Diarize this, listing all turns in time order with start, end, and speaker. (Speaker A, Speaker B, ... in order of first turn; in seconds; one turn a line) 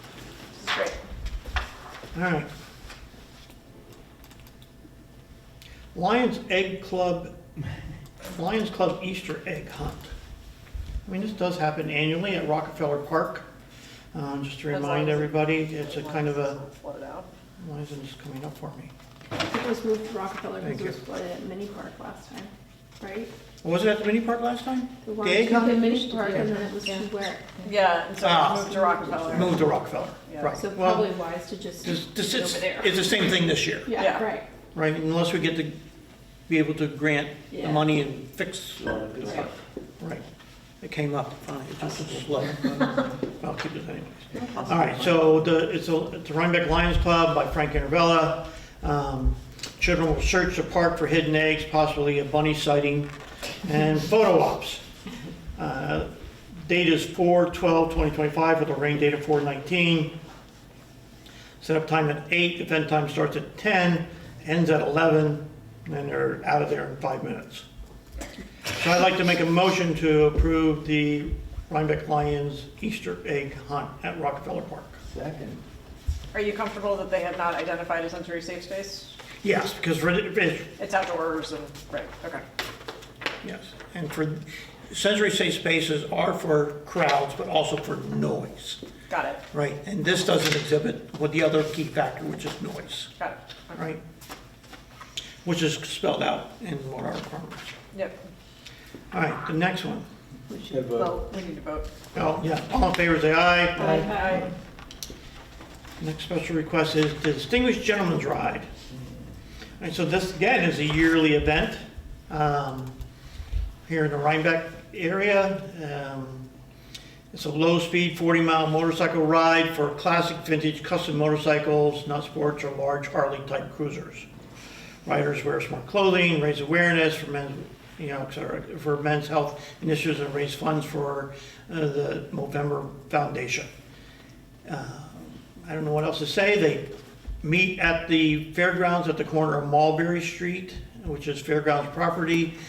Speaker A: 0.6-1.0
Speaker B: 2.1-2.5
Speaker B: 5.9-7.3
Speaker B: 8.3-10.1
Speaker B: 11.1-13.5
Speaker B: 14.1-16.6
Speaker A: 14.7-17.3
Speaker B: 17.6-18.9
Speaker C: 19.4-23.3
Speaker B: 20.6-21.0
Speaker B: 23.6-26.5
Speaker C: 25.0-27.6
Speaker A: 27.6-29.7
Speaker B: 28.2-31.1
Speaker C: 28.8-29.3
Speaker A: 30.3-30.6
Speaker C: 30.6-32.9
Speaker B: 31.8-34.2
Speaker C: 33.9-34.5
Speaker A: 34.0-34.3
Speaker B: 34.7-35.8
Speaker B: 36.5-40.2
Speaker C: 37.5-37.8
Speaker D: 39.0-39.5
Speaker B: 40.8-53.1
Speaker D: 44.7-45.1
Speaker B: 53.6-54.8
Speaker B: 55.6-56.1
Speaker B: 56.6-60.1
Speaker B: 61.6-67.7
Speaker B: 68.7-75.0
Speaker D: 75.1-75.6
Speaker A: 76.3-79.2
Speaker B: 79.4-80.7
Speaker A: 80.8-82.4
Speaker B: 83.4-88.8
Speaker A: 89.1-89.4
Speaker B: 89.5-93.1
Speaker A: 93.2-93.8
Speaker B: 93.8-94.0
Speaker B: 95.5-97.8
Speaker A: 97.9-98.2
Speaker B: 99.1-100.1
Speaker C: 100.5-101.2
Speaker D: 100.7-101.2
Speaker A: 101.2-101.9
Speaker B: 102.1-104.5
Speaker A: 103.8-104.5
Speaker C: 103.9-104.4
Speaker B: 106.0-108.7
Speaker B: 109.8-112.9
Speaker B: 113.9-116.5
Speaker B: 117.3-124.3
Speaker B: 125.1-133.7
Speaker B: 134.7-136.9
Speaker B: 137.4-142.5